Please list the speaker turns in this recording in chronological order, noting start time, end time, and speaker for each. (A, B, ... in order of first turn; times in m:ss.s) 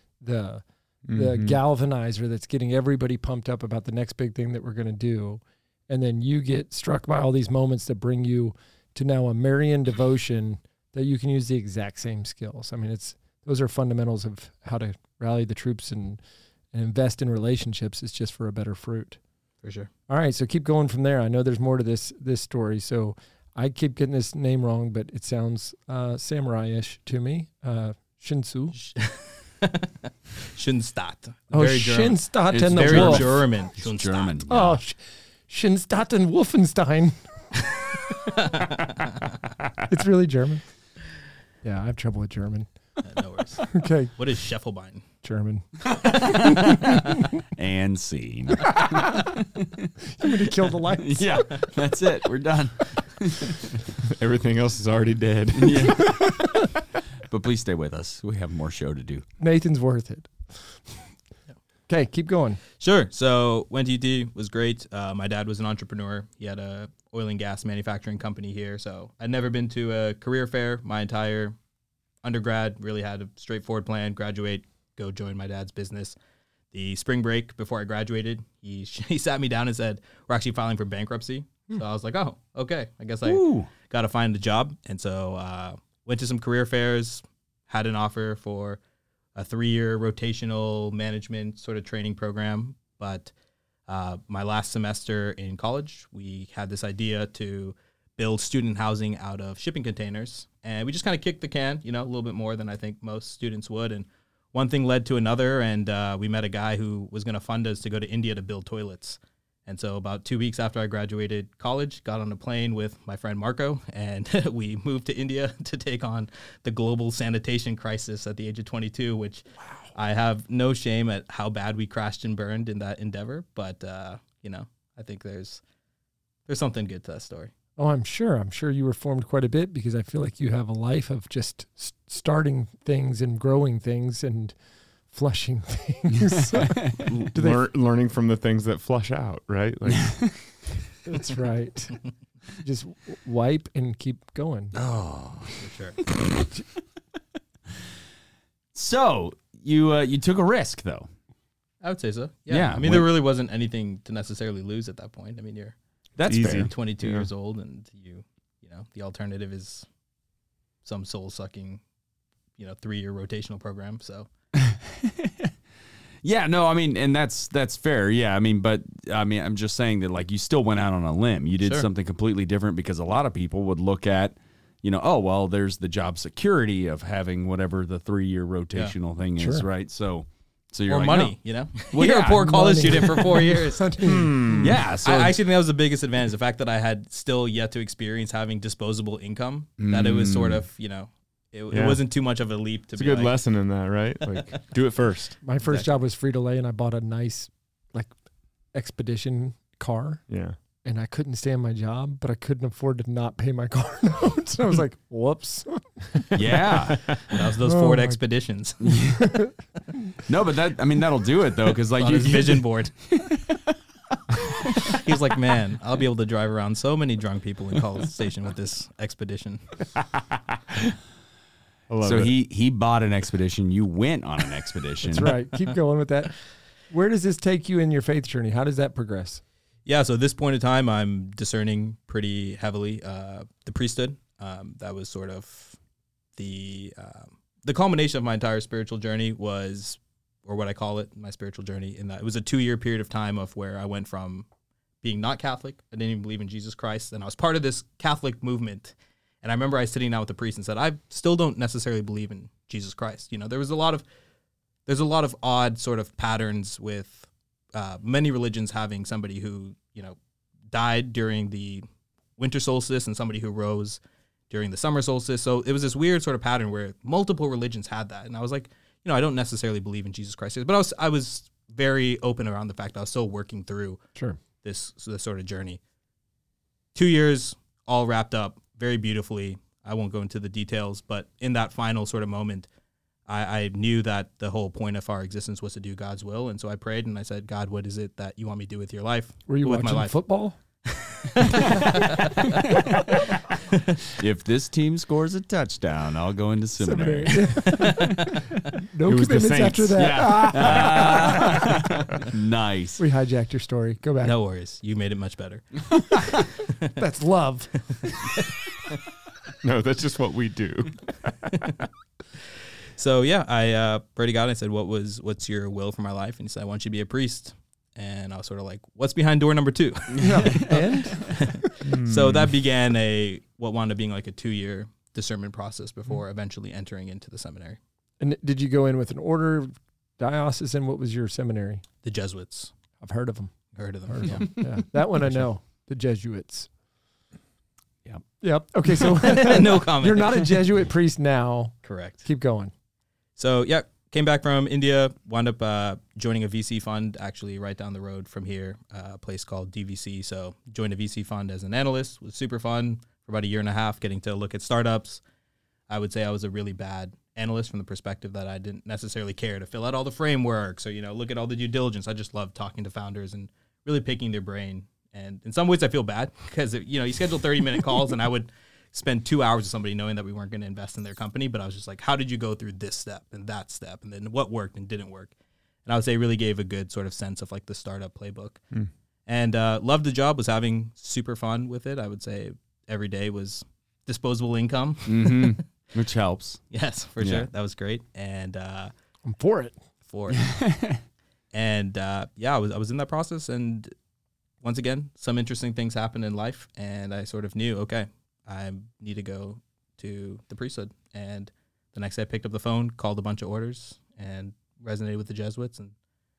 0:00.2-0:16.2 A
0:01.1-0:01.6 B
0:16.7-0:19.2 A
0:19.6-0:19.9 C
0:20.1-0:28.8 A
0:28.8-0:29.9 C
0:30.4-0:34.4 C
0:31.5-0:33.4 A
0:32.5-0:34.8 D
0:34.5-0:37.2 A
0:39.9-0:40.6 A
0:41.6-0:42.7 A
0:43.0-0:45.0 C
0:43.7-0:44.1 A
0:45.2-0:47.2 A
0:45.9-0:49.9 D
0:48.7-0:49.3 A
0:50.1-0:51.6 A
0:50.9-0:53.7 D
0:54.0-0:56.2 B
0:55.5-0:56.5 D
0:57.2-0:59.2 D
0:59.4-1:00.8 A
1:01.9-1:02.6 A
1:02.8-1:11.6 C
1:12.2-1:16.2 C
1:16.7-1:28.8 C
1:23.2-1:23.7 D
1:29.3-1:33.3 C
1:33.9-2:05.6 C
2:06.5-2:07.5 C
2:07.8-2:14.5 A
2:15.1-2:17.6 A
2:16.5-2:17.0 D
2:17.0-2:20.4 B
2:21.0-2:22.0 A
2:22.6-2:24.7 A
2:24.7-2:25.6 D
2:25.6-2:26.0 C
2:28.7-2:31.1 D
2:31.8-2:35.7 C
2:32.5-2:33.1 D
2:36.2-2:36.7 D
2:36.2-2:37.3 B
2:36.3-2:39.8 C
2:40.8-2:41.8 C
2:42.6-2:44.3 C
2:44.6-2:45.5 D
2:46.2-3:01.3 D
2:51.6-2:51.9 C
2:59.4-2:59.6 A
3:00.9-3:04.1 C
3:01.9-3:03.2 D
3:02.2-3:04.6 A
3:04.0-3:04.8 B
3:04.6-3:05.4 D
3:05.0-3:13.3 C
3:09.8-3:10.6 D
3:11.7-3:12.0 B
3:12.9-3:15.4 B
3:15.4-3:18.1 A
3:15.6-3:15.9 C
3:18.7-3:20.2 A
3:20.3-3:20.6 B
3:20.8-3:26.8 A
3:26.3-3:27.2 D
3:27.3-3:29.0 C
3:27.6-3:28.2 A
3:28.8-3:29.3 D
3:29.1-3:29.5 A
3:30.2-3:33.6 D
3:31.9-3:32.9 C
3:34.6-3:34.9 D
3:34.8-3:39.8 C
3:41.9-3:42.3 B
3:42.0-3:45.3 D
3:45.0-3:46.4 A
3:46.9-3:49.4 A
3:49.8-3:55.8 C
3:56.4-4:04.5 C
4:05.0-4:14.0 C
4:14.8-4:20.2 C
4:20.7-4:21.8 C
4:22.4-4:34.0 C
4:34.6-4:35.8 C
4:36.9-4:42.7 C
4:43.3-4:50.2 C
4:49.5-4:50.6 A
4:50.9-4:52.6 C
4:52.6-4:52.9 D
4:54.1-4:58.1 D
4:56.8-5:01.8 A
4:59.0-5:01.7 B
5:00.0-5:03.0 D
5:03.0-5:04.3 A
5:04.2-5:06.9 C
5:07.0-5:07.8 A
5:09.6-5:11.5 B
5:13.0-5:27.8 C
5:20.2-5:21.3 D
5:20.2-5:21.4 A
5:21.8-5:22.5 B
5:28.2-5:31.8 A
5:32.0-5:32.7 C
5:33.0-5:33.5 A
5:33.7-5:34.6 C
5:34.1-5:36.7 A
5:38.4-5:42.7 A
5:39.2-5:40.5 C
5:41.8-5:42.2 C
5:43.4-5:55.2 C
5:55.9-6:15.3 C
6:15.8-6:18.6 C
6:19.3-6:25.6 C
6:25.1-6:26.6 D
6:26.7-6:28.9 C
6:27.2-6:27.5 D
6:29.2-6:29.8 A
6:30.1-6:30.5 C
6:30.3-6:31.0 D
6:31.5-6:33.9 C
6:34.6-6:45.9 C